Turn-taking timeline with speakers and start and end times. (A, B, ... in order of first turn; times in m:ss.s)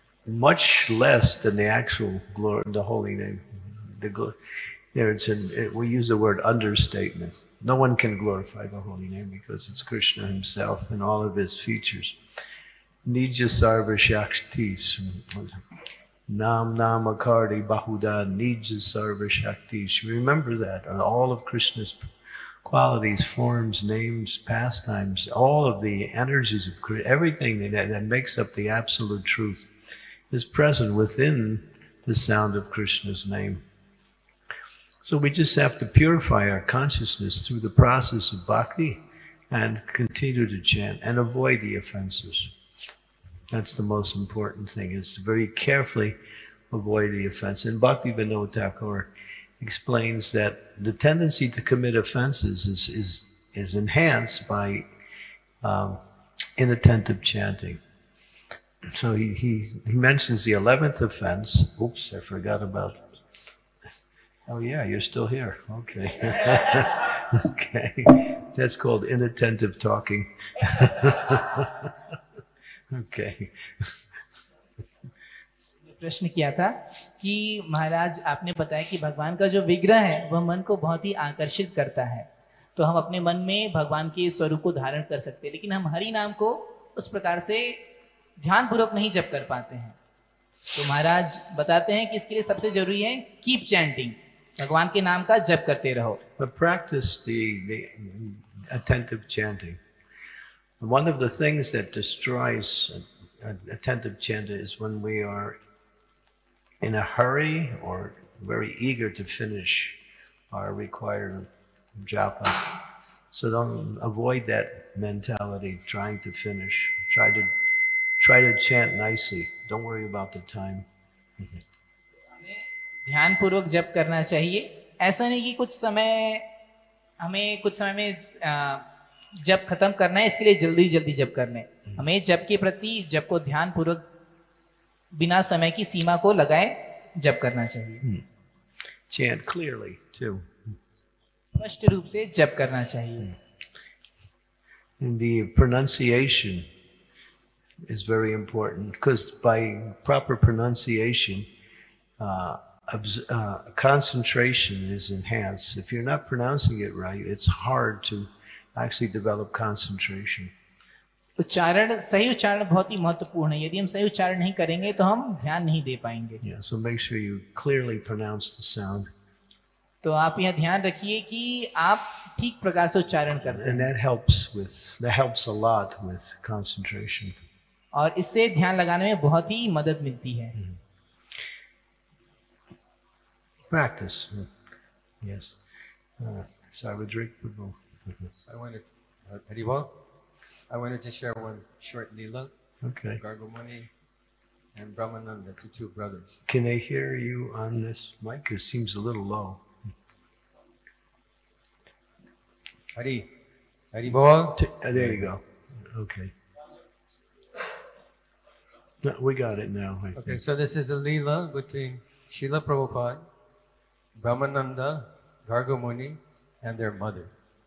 0:00.2-0:04.4 A
0:04.9-0:12.2 A
0:13.0-0:15.6 A
0:16.3-0:22.1 A
0:22.6-0:29.7 A
0:30.3-0:33.6 A
0:35.0-0:42.5 A
0:43.5-0:46.2 A
0:46.7-0:54.9 A
0:55.6-0:56.0 A
0:56.6-0:57.8 A
0:58.8-1:03.1 A
1:04.5-1:12.2 A
1:12.9-1:14.0 A
1:15.9-1:27.8 B
1:28.4-1:30.0 B
1:30.7-1:36.2 B
1:36.4-1:39.8 A
1:40.8-1:45.6 A
1:46.8-1:50.0 A
1:50.5-1:52.8 A
1:53.3-1:57.5 A
1:58.2-2:00.9 A
2:02.4-2:06.4 B
2:07.2-2:14.0 B
2:15.1-2:18.0 B
2:19.1-2:20.8 A
2:21.5-2:23.3 B
2:25.0-2:26.7 A
2:27.8-2:31.5 A
2:32.2-2:40.5 A
2:41.4-2:46.4 B
2:46.4-2:49.1 A
2:50.0-2:53.9 B
2:53.4-2:57.4 A
2:57.9-3:00.5 B
3:03.7-3:04.5 A
3:05.2-3:05.6 A
3:06.2-3:08.3 A
3:08.4-3:09.9 C
3:10.7-3:12.5 C
3:12.8-3:13.2 A
3:13.2-3:13.9 C
3:14.7-3:16.4 C
3:16.5-3:19.6 A
3:23.0-3:23.3 C
3:23.9-3:25.2 C
3:24.1-3:26.3 A
3:29.0-3:30.4 A
3:30.2-3:33.2 C
3:34.2-3:37.3 C